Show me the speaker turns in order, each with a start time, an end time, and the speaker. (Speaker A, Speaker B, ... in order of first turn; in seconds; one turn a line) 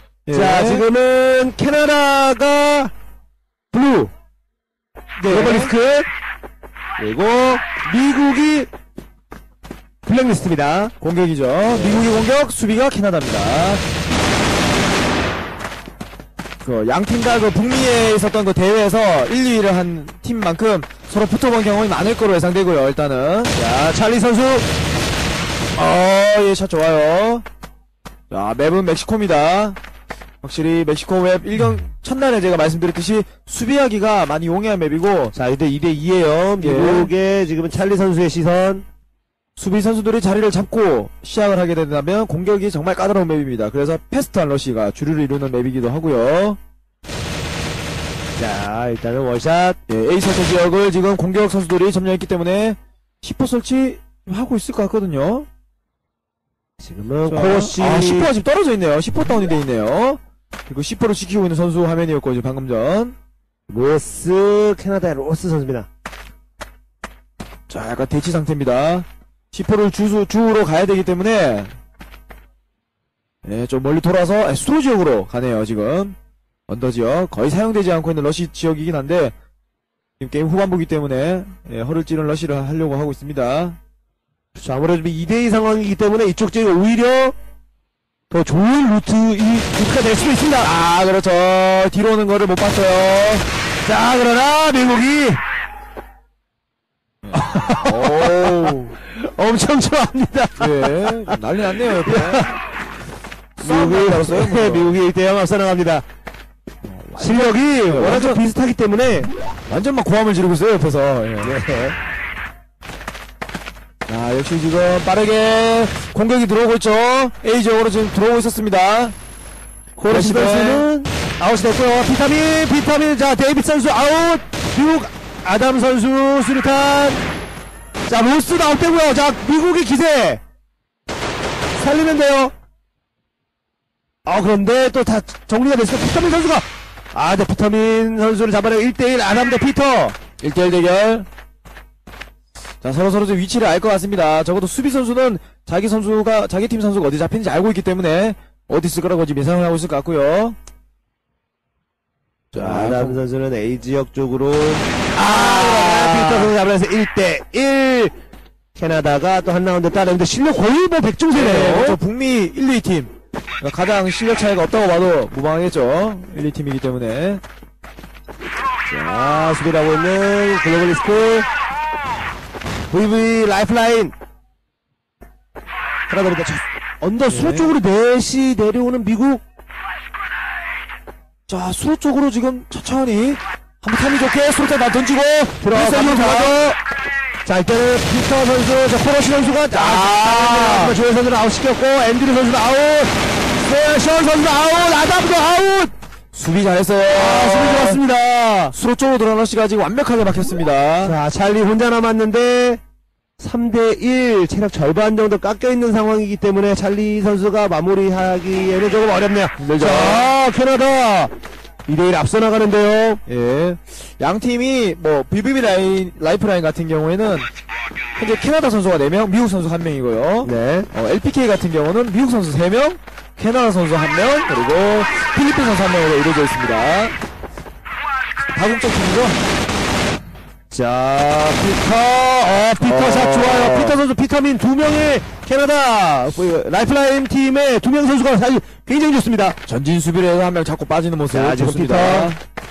Speaker A: 0.2-0.8
Speaker B: 0.3-2.9
Speaker B: 3.7-4.1
Speaker A: 5.2-5.7
Speaker B: 5.3-6.1
Speaker B: 7.0-8.7
Speaker B: 10.0-10.9
Speaker A: 11.0-13.8
Speaker B: 11.7-12.1
Speaker A: 16.6-23.5
Speaker B: 23.5-24.6
Speaker A: 25.8-27.4
Speaker A: 28.3-29.8
Speaker A: 30.4-35.3
Speaker B: 35.3-38.8
Speaker A: 36.6-37.1
Speaker A: 39.6-46.6
Speaker B: 48.4-49.8
Speaker A: 49.9-55.5
Speaker B: 56.8-58.3
Speaker A: 57.3-63.1
Speaker B: 63.7-65.9
Speaker A: 67.7-71.7
Speaker A: 73.4-76.2
Speaker A: 76.7-79.3
Speaker A: 80.2-83.8
Speaker B: 84.5-87.4
Speaker B: 88.3-90.7
Speaker A: 90.6-93.5
Speaker B: 93.8-95.4
Speaker A: 97.2-98.9
Speaker B: 97.3-101.4
Speaker A: 100.6-102.5
Speaker B: 102.1-102.5
Speaker A: 103.6-104.9
Speaker B: 103.6-106.0
Speaker A: 106.8-108.4
Speaker B: 107.2-109.3
Speaker A: 109.7-111.5
Speaker B: 111.4-112.0
Speaker A: 114.1-119.1
Speaker B: 120.0-127.2
Speaker A: 120.1-120.8
Speaker B: 128.1-130.4
Speaker B: 131.8-132.5
Speaker B: 134.2-140.2
Speaker A: 140.4-141.3
Speaker A: 142.8-150.6
Speaker A: 152.5-153.2
Speaker B: 152.6-158.1
Speaker A: 155.2-156.5
Speaker B: 158.8-162.0
Speaker A: 161.3-167.4
Speaker B: 168.9-171.5
Speaker B: 172.9-174.1
Speaker B: 176.1-179.4
Speaker A: 177.0-177.8
Speaker A: 181.5-186.6
Speaker B: 185.6-186.8
Speaker B: 187.4-195.9
Speaker A: 189.7-190.9
Speaker A: 196.3-198.0
Speaker B: 197.1-198.8
Speaker A: 198.7-201.2
Speaker B: 201.0-202.8
Speaker B: 203.4-211.3
Speaker A: 209.6-210.3
Speaker B: 211.8-213.2
Speaker A: 213.3-217.5
Speaker A: 218.2-227.2
Speaker B: 220.4-220.9
Speaker A: 228.5-229.4
Speaker B: 230.7-239.6
Speaker A: 232.8-234.0
Speaker A: 239.7-242.4
Speaker B: 241.3-242.3